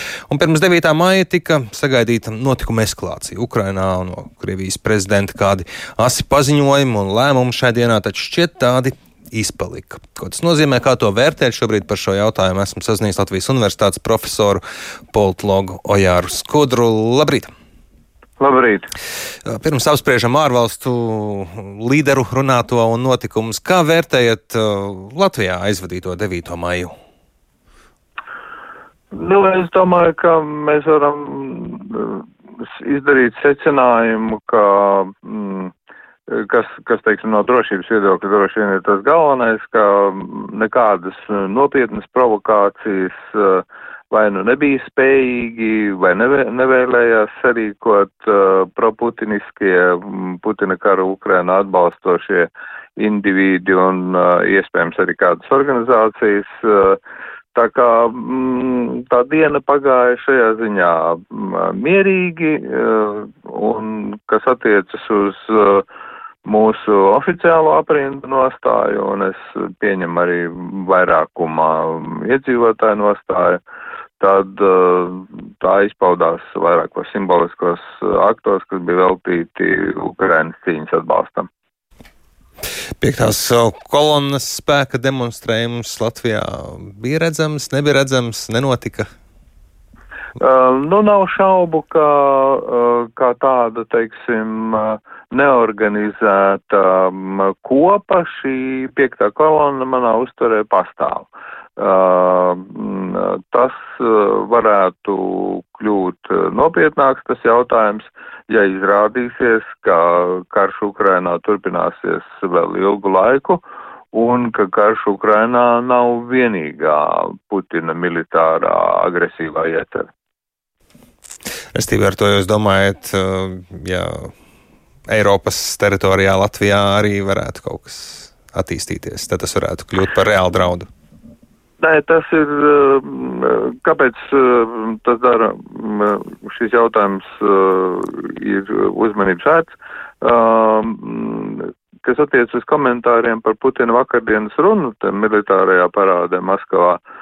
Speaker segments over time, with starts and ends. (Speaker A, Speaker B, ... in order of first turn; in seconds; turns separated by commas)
Speaker A: 0.3-14.6, Speaker A: 15.1-17.5, Speaker B: 18.4-18.9, Speaker A: 19.5-26.9, Speaker B: 29.1-35.7, Speaker B: 36.3-57.0, Speaker B: 57.5-65.9, Speaker B: 66.5-73.6, Speaker B: 74.2-81.5, Speaker A: 83.0-89.1, Speaker B: 90.4-120.1, Speaker A: 121.8-124.3, Speaker A: 125.1-130.9, Speaker B: 131.8-147.0